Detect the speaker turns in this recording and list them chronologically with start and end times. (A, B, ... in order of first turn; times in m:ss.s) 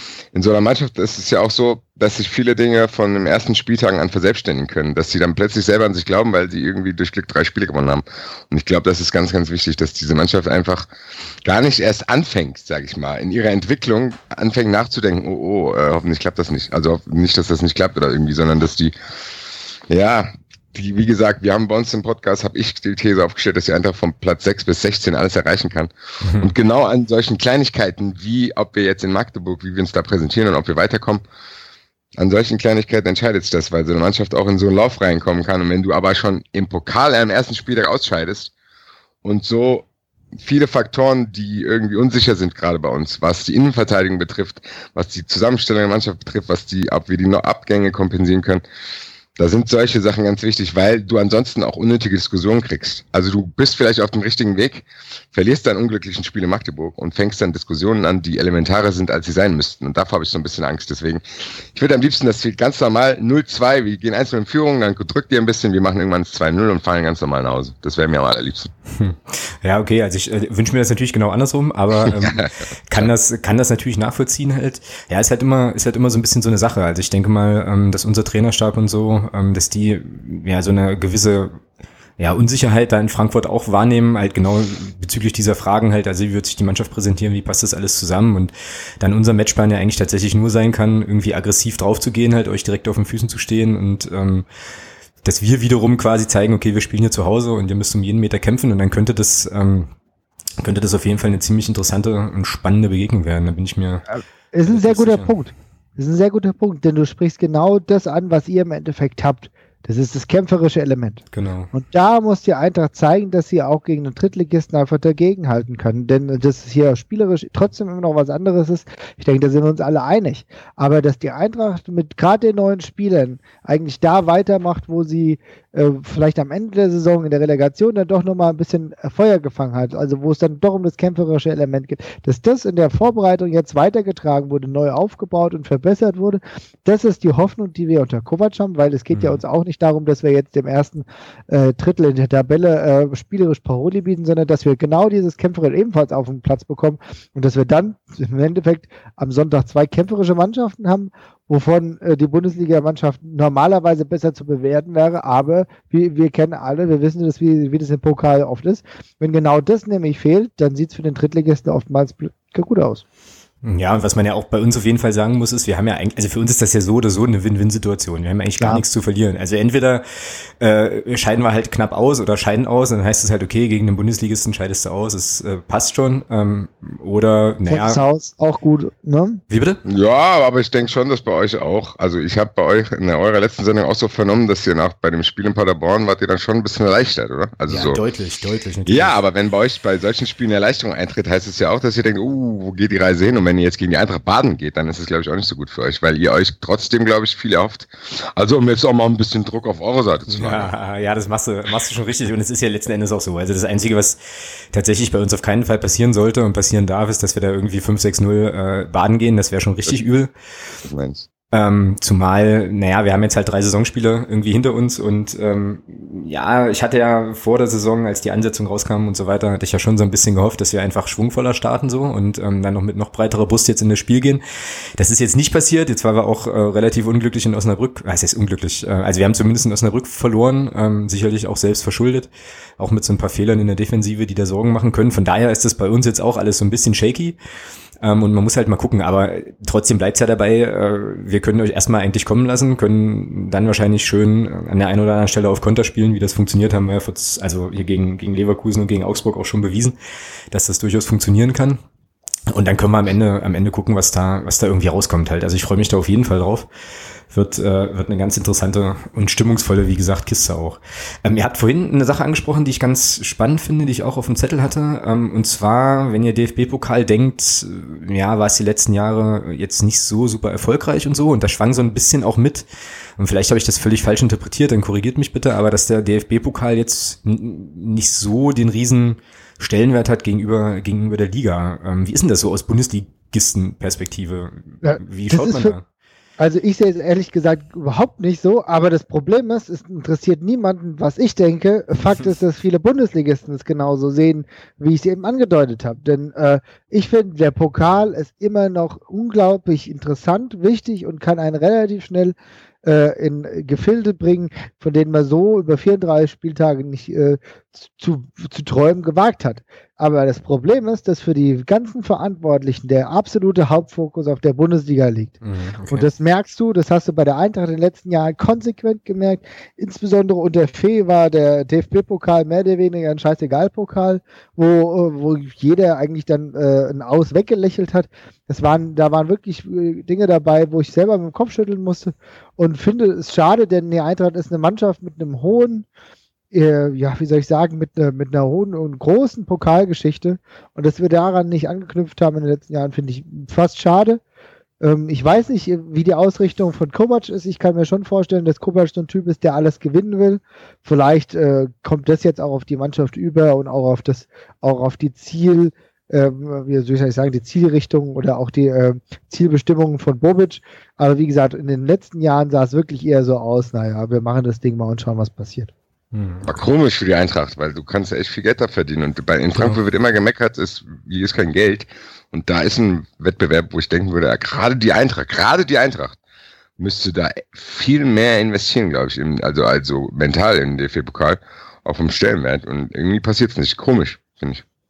0:00.3-0:10.9 A
0:11.4-0:18.9 A
0:19.9-0:31.2 A
0:26.2-0:26.5 B
0:32.2-0:38.5 A
0:39.2-0:39.8 A
0:40.4-0:48.6 A
0:49.4-1:01.2 A
1:01.7-1:08.7 A
1:09.0-1:21.6 B
1:12.0-1:13.1 A
1:22.2-1:34.4 B
1:35.2-1:39.9 B
1:40.6-1:44.1 B
1:44.1-1:51.2 C
1:44.6-1:45.3 B
1:51.3-1:51.7 B
1:51.7-2:43.0 C
2:19.1-2:19.4 B
2:43.6-2:58.0 B
2:57.7-2:59.4 C
2:59.5-2:59.8 B
2:59.8-3:08.0 A
3:07.7-3:09.2 B
3:08.9-3:20.7 A
3:20.3-3:24.2 B
3:24.7-3:30.3 B
3:30.8-3:31.3 A
3:31.5-3:44.4 B
3:45.0-3:57.4 B
3:58.0-4:10.0 B
4:10.5-4:11.8 B
4:12.5-4:16.7 B
4:17.3-4:32.6 B
4:33.2-4:45.8 B
4:44.8-4:45.7 C
4:46.4-5:15.4 C
5:15.4-5:16.1 B
5:15.9-5:35.8 C
5:36.5-5:44.2 C
5:44.8-6:05.7 C
6:06.1-6:06.6 B
6:06.4-6:16.2 A
6:09.5-6:09.8 B
6:16.8-6:24.6 A